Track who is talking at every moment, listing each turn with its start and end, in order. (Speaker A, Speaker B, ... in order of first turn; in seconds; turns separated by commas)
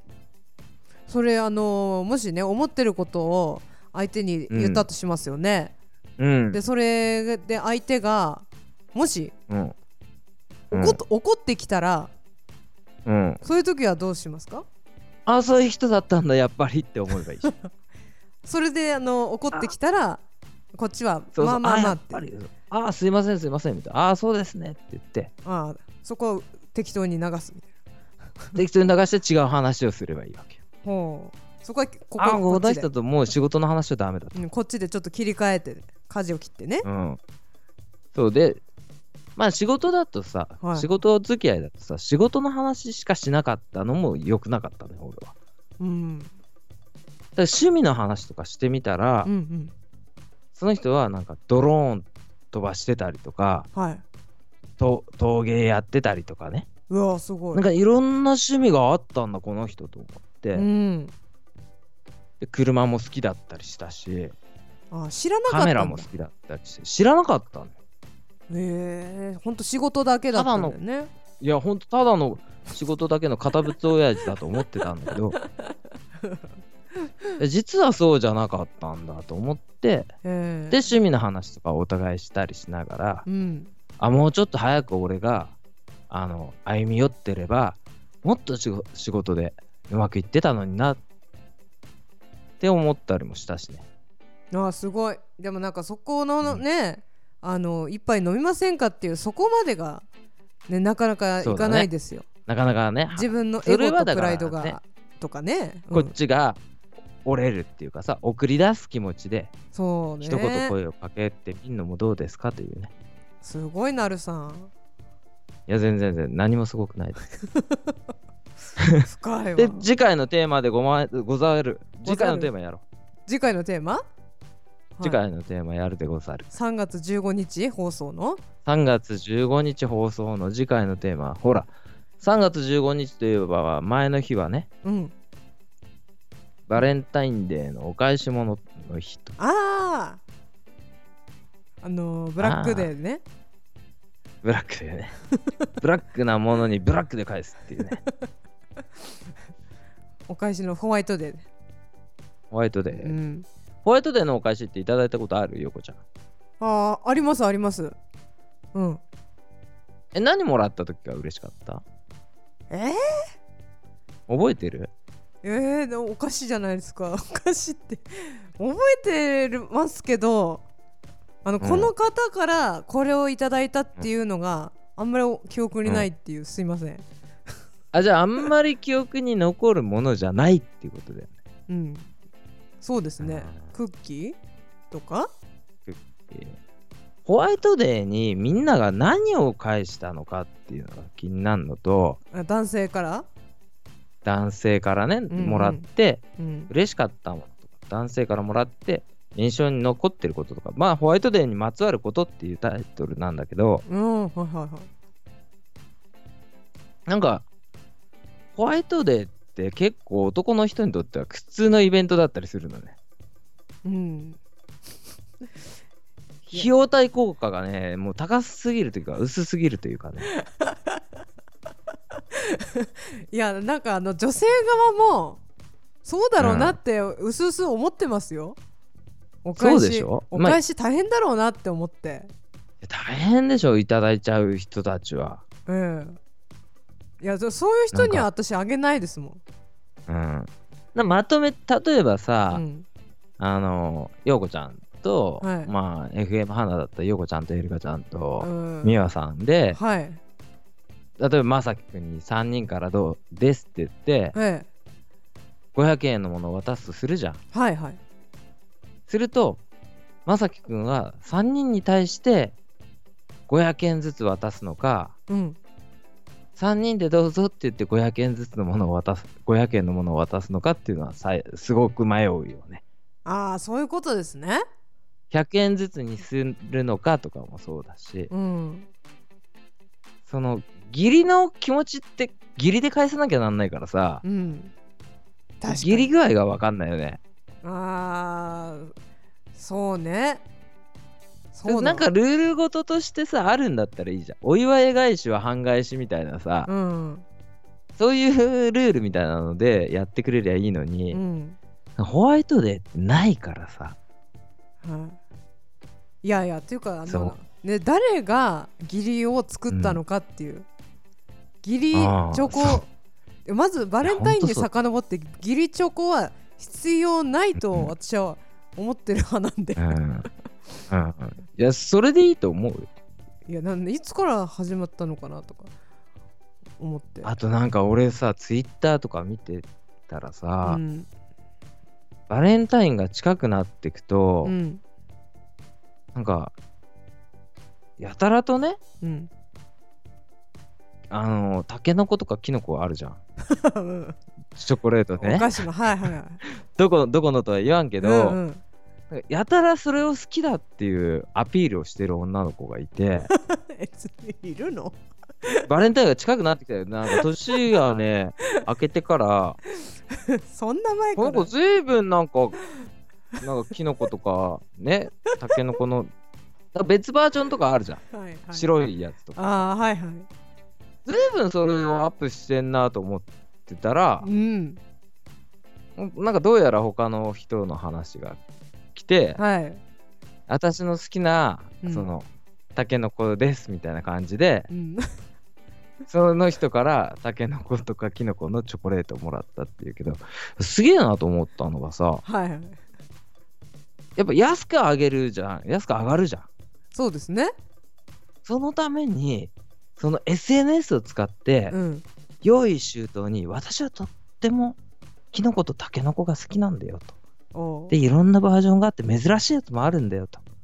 Speaker A: 1.1-5.7, Speaker B: 4.5-4.8, Speaker B: 6.2-6.6, Speaker A: 6.5-9.3, Speaker B: 9.5-9.7, Speaker B: 10.7-11.0, Speaker A: 10.7-12.1, Speaker B: 13.1-13.4, Speaker A: 13.4-14.7, Speaker B: 15.2-17.5, Speaker A: 17.4-17.7, Speaker A: 18.4-20.2, Speaker A: 20.7-22.2, Speaker B: 21.3-25.3, Speaker A: 25.4-27.7, Speaker B: 28.6-30.6, Speaker A: 30.8-32.9, Speaker B: 32.2-34.4, Speaker A: 34.3-36.9, Speaker B: 36.8-37.2, Speaker B: 38.1-38.6, Speaker B: 39.4-45.3, Speaker A: 40.6-40.9, Speaker A: 45.8-46.3, Speaker B: 47.4-49.3, Speaker A: 49.2-49.7, Speaker B: 50.5-53.7, Speaker A: 53.7-54.0, Speaker B: 54.8-56.7, Speaker A: 56.9-57.6, Speaker B: 57.5-60.7, Speaker A: 60.5-61.1, Speaker B: 62.4-64.3, Speaker A: 64.9-66.1, Speaker B: 65.5-67.8, Speaker A: 68.5-71.1, Speaker B: 70.3-70.8, Speaker B: 71.4-75.4, Speaker A: 75.4-75.7, Speaker B: 77.4-80.1, Speaker A: 80.2-80.9, Speaker B: 80.7-83.2, Speaker A: 83.2-83.7, Speaker B: 84.0-85.5, Speaker B: 86.1-91.0, Speaker B: 92.6-93.8, Speaker A: 94.5-100.0, Speaker A: 100.7-102.3, Speaker B: 101.4-101.9, Speaker B: 102.5-104.8, Speaker A: 103.1-106.1, Speaker B: 105.9-106.6, Speaker B: 107.2-109.5, Speaker A: 109.7-110.8, Speaker B: 110.2-112.9, Speaker A: 113.4-114.7, Speaker B: 115.7-117.2, Speaker A: 117.4-117.9, Speaker B: 118.8-122.8, Speaker A: 119.0-119.9, Speaker A: 122.0-122.5, Speaker A: 123.3-124.0, Speaker B: 125.0-126.5, Speaker A: 126.5-128.4, Speaker B: 128.7-134.7, Speaker A: 134.8-135.1, Speaker B: 136.7-139.3, Speaker A: 139.4-140.2, Speaker A: 141.8-143.2, Speaker B: 142.4-142.9, Speaker B: 144.4-145.1, Speaker B: 145.8-148.0, Speaker A: 150.3-151.5, Speaker B: 152.5-153.2, Speaker A: 152.9-153.4, Speaker B: 153.8-156.0, Speaker A: 156.6-158.0, Speaker A: 158.7-159.0, Speaker B: 160.1-161.8, Speaker A: 162.7-163.2, Speaker B: 164.3-164.9, Speaker A: 165.4-170.6, Speaker A: 171.4-177.0, Speaker B: 171.6-171.9, Speaker B: 177.9-181.3, Speaker A: 181.7-182.1, Speaker A: 182.8-184.4, Speaker B: 183.2-183.7, Speaker A: 184.9-185.3, Speaker B: 185.8-186.6, Speaker B: 187.2-192.2, Speaker A: 192.3-193.3, Speaker B: 194.2-203.8, Speaker A: 195.3-196.7, Speaker A: 203.9-204.9, Speaker B: 207.1-207.4, Speaker B: 208.6-213.0, Speaker A: 213.8-214.4, Speaker B: 216.5-220.3, Speaker A: 220.3-221.0, Speaker A: 222.3-225.4, Speaker A: 226.0-228.6, Speaker B: 226.4-226.8, Speaker A: 229.4-232.3, Speaker B: 229.6-230.6, Speaker B: 232.8-235.4, Speaker A: 235.7-236.2, Speaker A: 237.2-239.4, Speaker B: 237.9-238.2, Speaker B: 240.1-242.6, Speaker A: 242.5-242.8, Speaker B: 243.4-249.8, Speaker A: 245.4-245.7, Speaker A: 248.4-248.9, Speaker A: 249.7-250.2, Speaker B: 251.2-254.3, Speaker A: 254.3-254.7, Speaker B: 255.7-257.4, Speaker A: 257.5-258.0, Speaker B: 259.1-259.6, Speaker B: 260.2-262.6, Speaker B: 263.5-265.1, Speaker A: 265.3-265.6, Speaker B: 266.6-272.8, Speaker A: 273.2-274.6, Speaker B: 275.3-278.3, Speaker A: 278.3-278.9, Speaker B: 280.3-284.2, Speaker A: 284.2-284.7, Speaker A: 285.6-286.1, Speaker B: 285.7-287.2, Speaker A: 287.6-288.9, Speaker A: 289.5-290.4, Speaker A: 291.5-292.1, Speaker B: 291.6-296.7, Speaker A: 296.6-297.2, Speaker B: 298.0-301.2, Speaker A: 301.1-301.6, Speaker B: 302.0-304.0, Speaker A: 304.8-305.2, Speaker A: 306.2-310.6, Speaker B: 307.1-307.3, Speaker B: 309.7-310.0, Speaker A: 311.6-312.9, Speaker B: 311.9-312.8, Speaker A: 313.4-320.0, Speaker B: 314.0-314.7, Speaker B: 317.6-317.9, Speaker B: 319.8-320.3, Speaker B: 320.9-322.9, Speaker A: 323.5-325.7, Speaker A: 326.8-327.4, Speaker B: 327.2-330.8, Speaker A: 330.6-331.1, Speaker B: 332.3-334.5, Speaker A: 334.4-334.8, Speaker B: 336.1-336.5, Speaker B: 338.0-338.8, Speaker A: 339.0-339.3, Speaker B: 341.1-343.2, Speaker A: 343.4-344.2, Speaker B: 344.6-348.4, Speaker A: 345.2-346.4, Speaker A: 348.0-348.6, Speaker B: 349.1-353.3, Speaker A: 353.2-355.7, Speaker B: 355.6-359.6, Speaker A: 357.1-357.6, Speaker A: 359.8-361.5, Speaker B: 361.2-362.6, Speaker B: 363.4-366.1, Speaker B: 366.7-369.6, Speaker A: 368.1-368.7, Speaker A: 369.4-370.3, Speaker B: 371.1-374.3, Speaker A: 374.2-374.8, Speaker B: 375.9-378.4, Speaker B: 378.9-379.4, Speaker A: 379.4-379.8, Speaker B: 380.5-384.7, Speaker A: 381.8-382.1, Speaker A: 384.7-385.1, Speaker B: 386.1-392.2, Speaker A: 392.2-392.8, Speaker B: 394.1-396.5, Speaker A: 396.9-397.5, Speaker B: 398.4-401.8, Speaker A: 401.7-402.0, Speaker B: 402.4-404.8, Speaker B: 405.3-407.1, Speaker A: 407.5-408.0, Speaker B: 407.9-410.4